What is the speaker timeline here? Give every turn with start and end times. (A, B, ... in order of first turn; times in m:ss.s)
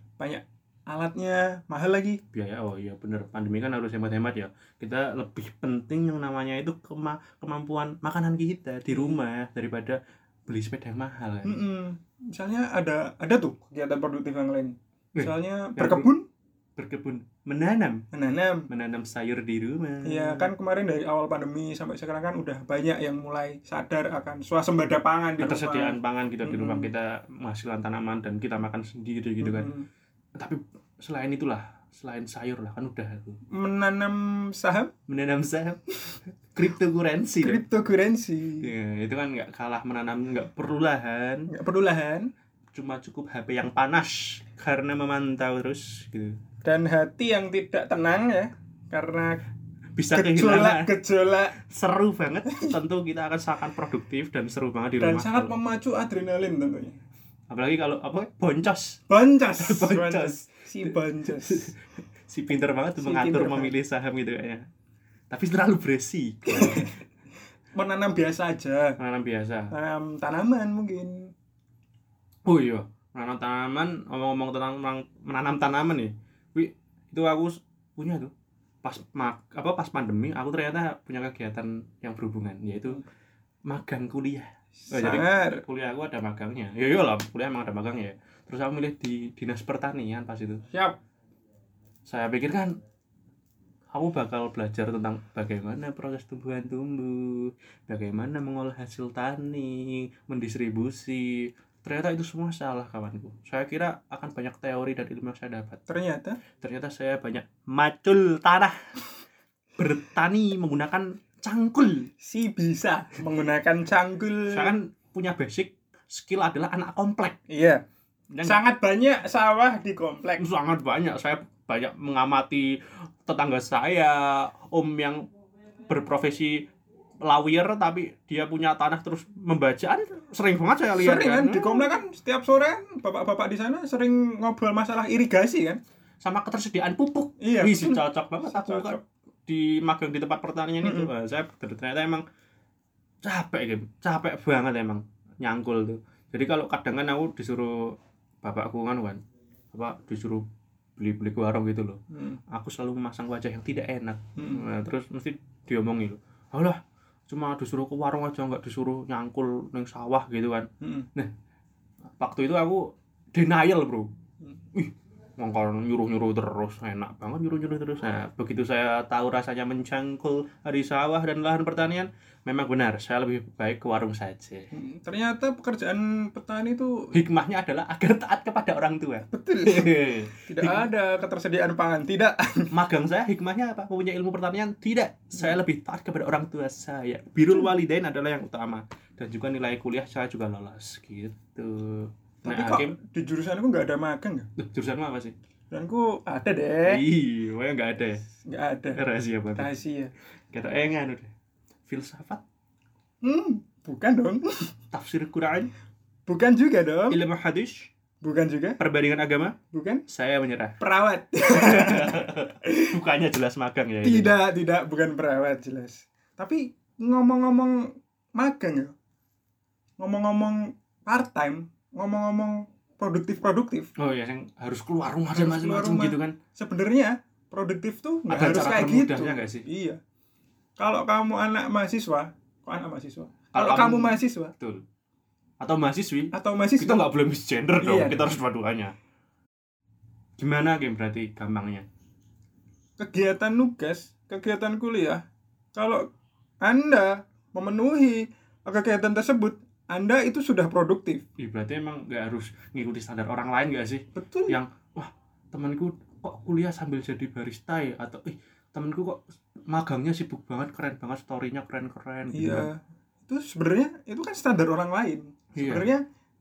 0:00.2-0:02.2 A
0:02.3-0:11.6 B
0:08.9-0:09.2 A
0:11.4-0:16.2 A
0:15.2-0:16.1 B
0:16.8-0:18.0 B
0:18.1-0:18.7 A
0:18.7-0:20.5 B
0:20.0-0:26.9 A
0:25.4-0:29.7 B
0:29.4-0:29.9 A
0:30.4-0:33.4 B
0:33.6-0:34.9 A
0:35.1-0:37.6 B
0:37.4-0:38.7 A
0:38.6-0:41.5 B
0:41.5-0:42.3 A
0:42.7-0:46.4 B
0:46.6-0:49.4 A
0:50.0-0:50.9 B
0:50.1-0:51.6 A
0:51.6-0:55.6 B
0:55.0-0:57.0 A
0:57.5-0:59.0 B
0:59.1-1:01.7 A
0:59.6-1:04.6 B
1:03.0-1:03.7 A
1:05.3-1:06.9 B
1:06.5-1:06.9 A
1:07.8-1:09.0 A
1:09.0-1:09.7 B
1:09.7-1:11.3 A
1:12.5-1:18.3 B
1:18.8-1:23.0 B
1:23.7-1:30.6 B
1:24.8-1:25.6 A
1:30.7-1:31.0 A
1:32.1-1:32.8 B
1:33.9-1:45.8 B
1:45.9-1:46.4 A
1:46.6-1:48.7 B
1:49.8-1:52.1 B
1:52.2-1:54.8 A
1:54.5-1:57.4 B
1:57.5-1:57.8 A
1:58.3-1:58.6 B
1:58.4-2:00.4 A
2:00.4-2:05.2 B
2:05.9-2:06.7 B
2:07.2-2:11.9 B
2:11.0-2:15.8 A
2:16.2-2:22.2 B
2:17.4-2:19.0 A
2:20.8-2:21.1 A
2:23.2-2:27.8 B
2:28.4-2:29.2 B
2:29.7-2:30.4 B
2:31.0-2:32.0 B
2:32.1-2:32.4 A
2:32.5-2:36.8 B
2:34.4-2:34.6 A
2:37.3-2:41.3 B
2:40.8-2:41.1 A
2:42.2-2:42.8 B
2:43.4-2:44.1 B
2:44.7-2:54.7 B
2:54.7-2:57.1 A
2:57.1-3:00.9 B
2:59.3-3:00.0 A
3:00.5-3:02.7 A
3:02.7-3:13.0 B
3:12.4-3:14.5 A
3:14.6-3:15.3 B
3:15.7-3:17.0 A
3:16.8-3:18.2 B
3:18.5-3:19.0 A
3:19.0-3:19.7 B
3:19.6-3:20.1 A
3:20.5-3:21.3 B
3:21.9-3:22.4 B
3:23.2-3:24.4 A
3:24.9-3:25.7 B
3:26.3-3:27.2 A
3:27.1-3:27.9 B
3:28.2-3:28.8 A
3:28.8-3:29.6 B
3:29.7-3:30.0 A
3:30.1-3:30.8 B
3:30.8-3:32.9 A
3:31.5-3:34.4 B
3:34.0-3:38.9 A
3:40.0-3:43.9 A
3:44.0-3:46.4 B
3:45.3-3:50.0 A
3:48.3-3:49.6 B
3:50.8-3:54.5 A
3:53.5-3:54.8 B
3:55.6-3:58.9 B
3:56.3-3:57.1 A
3:57.8-3:58.3 A
4:00.4-4:01.8 B
4:03.0-4:05.2 A
4:05.8-4:06.0 A
4:06.6-4:11.2 A
4:11.4-4:22.7 B
4:14.2-4:14.6 A
4:22.3-4:26.0 A
4:25.6-4:25.9 B